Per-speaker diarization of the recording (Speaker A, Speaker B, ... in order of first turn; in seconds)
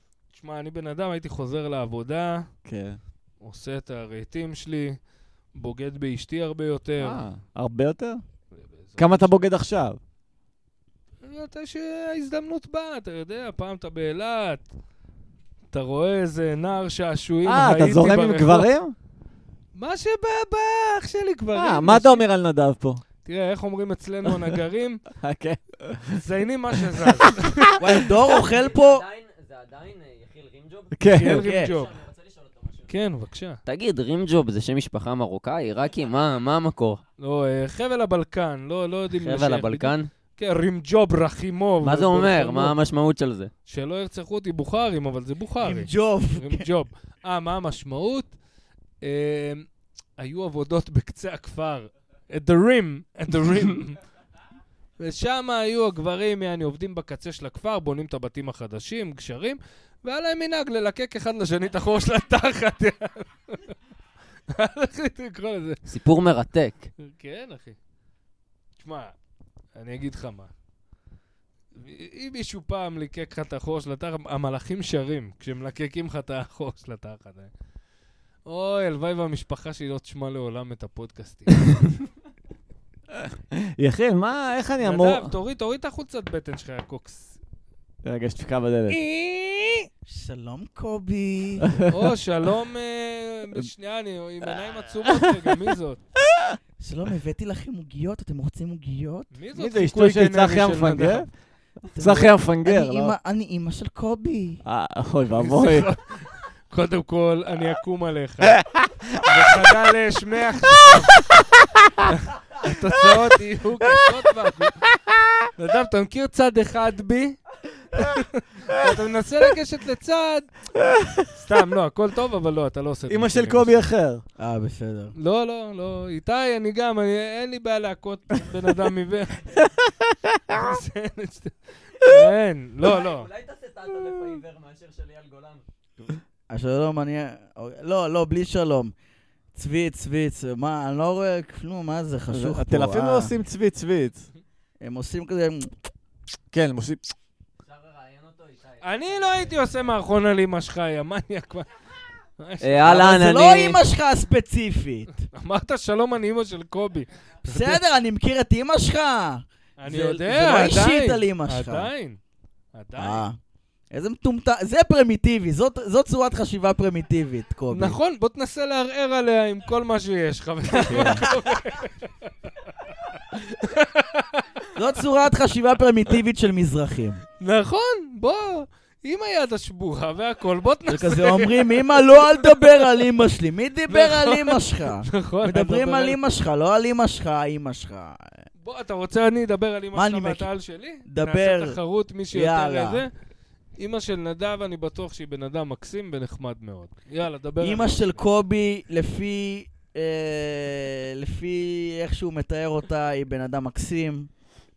Speaker A: 0.3-2.5, 3.4-5.0, 5.5-7.2, 8.6-9.4, 11.2-14.7, 15.7-18.7, 19.8-22.2, 23.2-25.0, 26.1-27.8, 31.1-32.0, 32.9-33.6, 37.2-42.8, 43.7-48.3, 49.0-49.7, 50.2-54.0, 55.0-63.8, 64.5-65.8, 67.0-67.8, 68.8-69.1, 69.8-70.5, 71.8-77.5, 78.5-81.8, 84.8-87.4, 88.9-89.9, 91.9-96.0, 99.3-101.3, 105.3-111.3, 112.1-114.8, 115.6-117.4, 117.9-120.7, 121.2-123.9, 125.2-129.7, 130.5-133.3, 148.8-151.7, 152.4-153.0, 155.3-157.8, 159.8-162.2, 162.7-163.2, 167.7-172.1, 173.5-174.7, 177.4-182.8, 183.9-186.2, 188.6-193.1, 193.8-198.2
Speaker B: 2.6-3.0, 7.0-8.2, 9.0-10.0, 17.4-18.9, 21.5-23.0, 25.2-26.2, 26.7-27.9, 31.0-31.4, 83.2-85.3, 88.0-89.0, 91.7-92.0, 95.1-95.5, 99.5-101.3, 102.0-103.2, 104.7-105.9, 108.5-109.7, 110.7-112.0, 114.9-115.5, 120.8-121.3, 123.1-124.2, 142.3-144.3, 146.5-147.1
Speaker C: 27.8-29.0, 31.2-31.7, 45.6-46.7, 90.0-91.8, 96.8-99.3, 101.9-104.6, 124.4-125.2, 136.5-138.9, 139.6-143.4, 144.8-145.7, 152.8-155.1, 157.5-161.9, 163.0-163.4, 163.9-168.0, 170.9-171.3, 174.8-177.2, 180.9-188.4, 189.9-190.5, 191.1-191.8, 192.3-193.0, 197.6-204.3
Speaker D: 28.4-32.9, 33.6-37.0, 39.1-40.1, 41.8-43.5, 65.9-66.9, 132.8-135.7, 147.6-149.8, 152.6-153.8, 170.8-171.4